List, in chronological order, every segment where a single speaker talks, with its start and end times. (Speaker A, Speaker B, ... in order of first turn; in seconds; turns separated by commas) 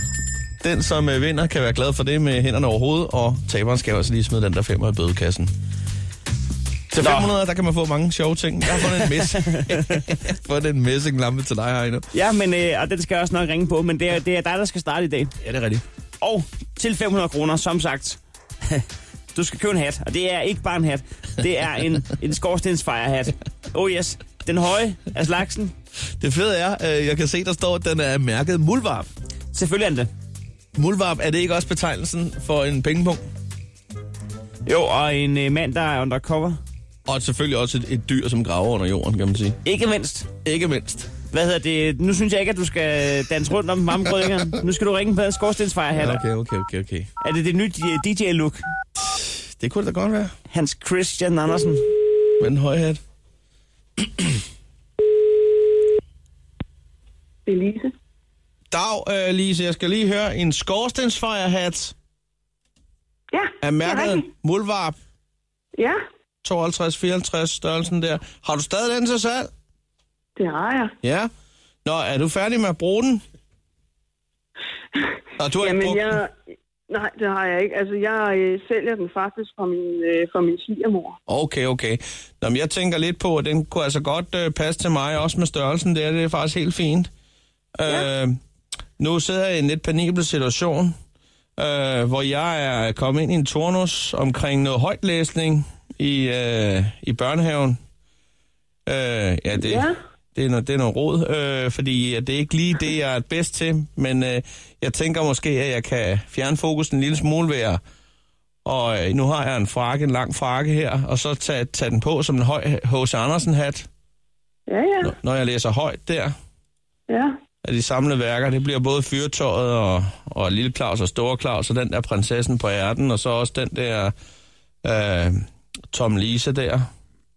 Speaker A: 0.6-5.5, Speaker A: 6.9-12.1, Speaker B: 7.0-7.3, Speaker B: 8.7-9.9, Speaker B: 12.1-15.3, Speaker A: 15.4-15.8, Speaker B: 16.2-18.8, Speaker B: 19.3-25.7, Speaker A: 26.2-29.1, Speaker B: 29.5-30.1, Speaker A: 30.7-33.2, Speaker B: 34.6-36.6, Speaker A: 37.0-39.6, Speaker B: 39.6-40.3, Speaker A: 40.4-41.1, Speaker B: 41.3-46.2, Speaker A: 45.9-47.1, Speaker B: 47.2-48.6, Speaker A: 49.0-50.3, Speaker B: 50.5-51.9, Speaker A: 52.4-53.0, Speaker A: 54.0-54.4, Speaker C: 57.5-57.9, Speaker A: 58.7-61.9, Speaker C: 63.3-64.1, Speaker A: 63.6-65.0, Speaker A: 66.4-69.5, Speaker C: 70.4-70.9, Speaker A: 71.0-71.3, Speaker A: 71.8-73.2, Speaker A: 75.4-76.2, Speaker C: 75.6-76.3, Speaker C: 76.9-81.1, Speaker A: 81.3-87.1, Speaker A: 87.8-88.3, Speaker A: 89.0-90.9, Speaker A: 91.6-97.8, Speaker A: 98.8-107.8, Speaker A: 108.6-113.9, Speaker C: 114.7-115.1, Speaker A: 115.0-116.3, Speaker A: 117.6-124.1, Speaker A: 124.8-125.4, Speaker A: 125.9-126.8